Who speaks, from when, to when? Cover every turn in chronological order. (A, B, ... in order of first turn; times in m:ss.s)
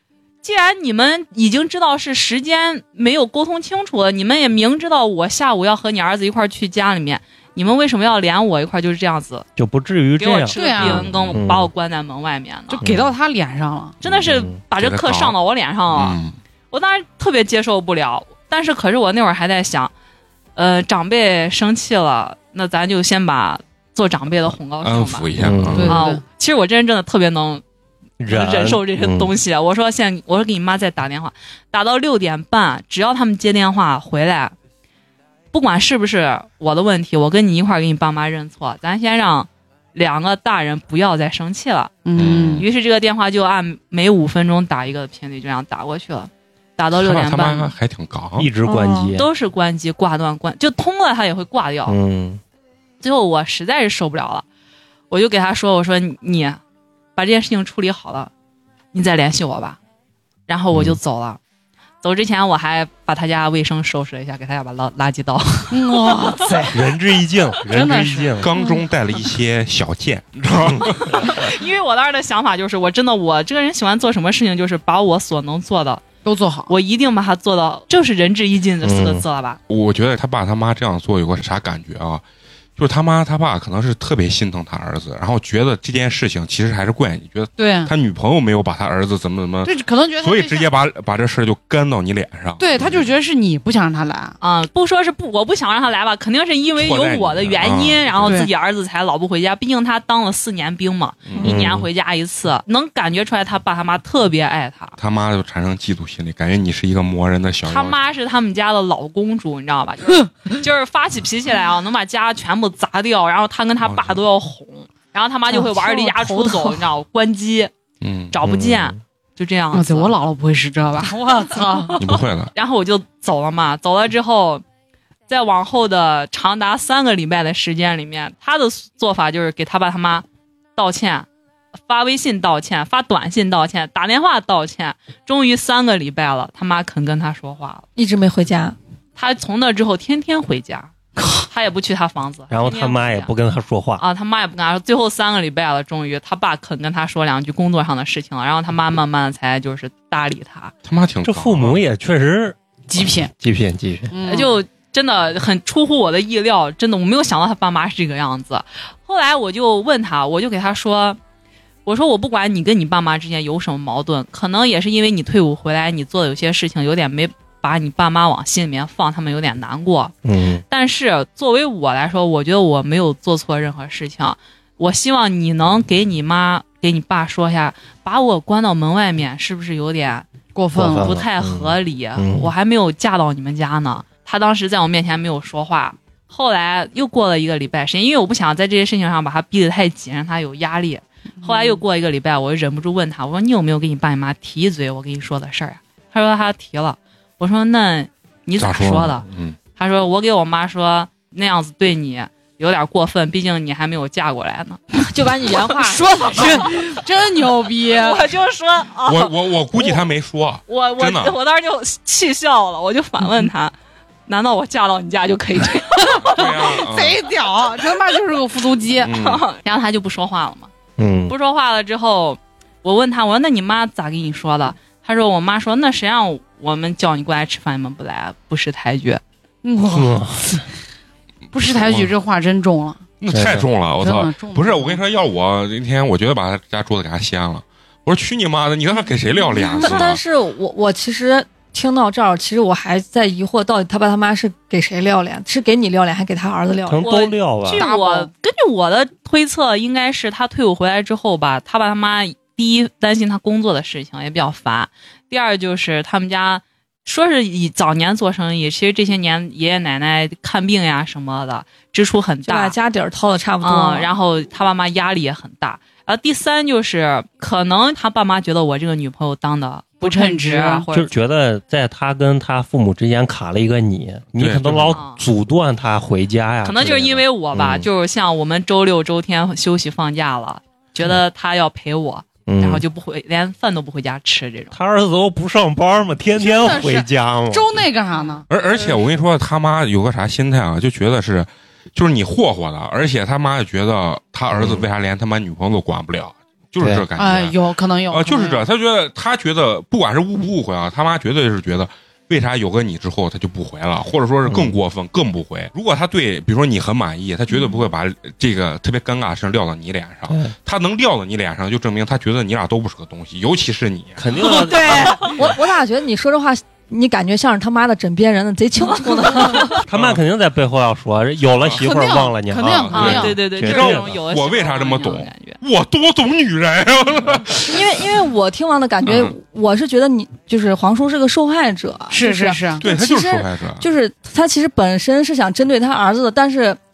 0:00.4-0:09.5 A
0:09.6-0:11.7 B
0:10.2-0:12.8 A
0:10.5-0:11.0 C
0:11.0-0:11.4 D
0:12.7-0:13.9 C
0:12.8-0:13.1 B
0:14.0-0:16.2 A
0:14.0-0:14.6 B
0:14.8-0:15.4 D
0:15.9-0:16.4 D
0:16.7-0:19.9 A
0:20.6-0:25.3 A
0:24.8-0:26.0 D
0:25.4-0:25.9 B
0:25.7-0:26.2 C
0:25.9-0:27.6 A
0:28.2-0:29.3 B
0:28.3-0:34.5 A
0:35.5-0:42.0 A
0:42.0-0:42.6 C
0:42.2-0:42.6 D
0:42.5-0:47.7 A
0:46.9-0:48.5 D
0:48.4-0:49.3 B
0:48.7-0:49.1 E
0:49.1-0:51.9 A
0:51.9-0:52.4 B
0:53.0-0:54.4 A
0:55.1-0:56.6 A
0:57.2-0:58.3 A
0:58.9-0:59.8 A
1:00.5-1:01.4 A
1:00.7-1:01.0 B
1:02.0-1:06.5 A
1:05.7-1:06.7 C
1:06.4-1:08.5 B
1:07.7-1:08.7 C
1:08.4-1:11.5 D
1:11.1-1:16.0 A
1:16.2-1:16.7 C
1:16.7-1:19.6 A
1:18.8-1:19.2 B
1:19.7-1:22.2 D
1:22.8-1:33.1 D
1:27.6-1:27.9 C
1:29.6-1:30.7 C
1:32.6-1:34.4 C
1:34.4-1:45.0 A
1:36.8-1:38.4 D
1:38.2-1:38.5 C
1:41.4-1:41.9 B
1:45.0-1:48.0 D
1:47.7-1:57.7 A
1:53.8-1:54.2 D
1:55.5-1:56.8 C
1:58.0-1:58.3 D
1:58.3-2:00.1 A
1:58.4-1:59.0 B
1:59.7-2:02.0 C
2:01.8-2:04.6 A
2:02.0-2:02.5 D
2:05.3-2:10.2 A
2:10.8-2:11.3 A
2:11.9-2:17.8 A
2:18.0-2:18.8 E
2:19.2-2:23.3 A
2:22.5-2:24.0 B
2:24.0-2:30.7 A
2:30.8-2:31.8 D
2:31.2-2:32.6 B
2:32.9-2:33.3 C
2:33.3-2:34.2 B
2:34.1-2:34.6 C
2:34.2-2:41.2 A
2:41.9-2:50.1 A
2:50.2-2:50.6 B
2:50.7-3:00.2 A
3:00.6-3:01.2 C
3:00.7-3:02.5 B
3:00.9-3:24.8 A
3:11.4-3:11.8 C
3:18.6-3:19.6 D
3:25.0-3:26.0 E
3:25.7-3:28.3 C
3:26.4-3:26.7 A
3:27.9-3:30.0 A
3:29.0-3:31.4 D
3:30.7-3:33.7 A
3:34.3-3:36.5 A
3:36.0-3:39.1 C
3:36.2-3:37.2 D
3:39.0-3:39.4 D
3:39.1-3:40.7 A
3:41.0-3:41.4 B
3:41.3-3:49.2 A
3:49.6-3:50.6 C
3:49.9-3:50.6 B
3:51.5-3:53.0 C
3:51.6-3:52.1 D
3:53.2-4:00.2 D
3:53.3-3:53.7 B
3:54.0-3:55.0 C
3:59.6-4:07.2 E
4:06.9-4:07.9 B
4:07.0-4:22.7 A
4:07.8-4:08.3 C
4:22.4-4:24.1 E
4:23.6-4:31.1 A
4:30.0-4:30.9 C
4:30.9-4:37.9 B
4:34.4-4:35.0 D
4:34.9-4:35.2 A
4:36.6-4:44.7 A
4:42.5-4:42.8 B
4:44.7-4:47.8 B
4:46.4-4:49.0 C
4:48.5-4:57.6 D
4:54.5-4:54.9 B
4:56.8-4:57.0 B
4:57.2-4:58.7 C
4:58.1-5:14.2 D
5:04.5-5:04.8 B
5:07.5-5:07.8 C
5:10.3-5:10.5 B
5:14.2-5:15.3 B
5:14.4-5:15.4 C
5:14.7-5:15.3 A
5:15.4-5:19.8 E
5:19.2-5:19.7 A
5:19.7-5:20.2 D
5:19.8-5:24.1 B
5:21.6-5:21.9 D
5:21.7-5:23.4 C
5:22.7-5:28.0 D
5:22.9-5:25.6 A
5:27.6-5:36.8 E
5:29.0-5:29.4 D
5:32.1-5:32.8 C
5:32.8-5:33.9 D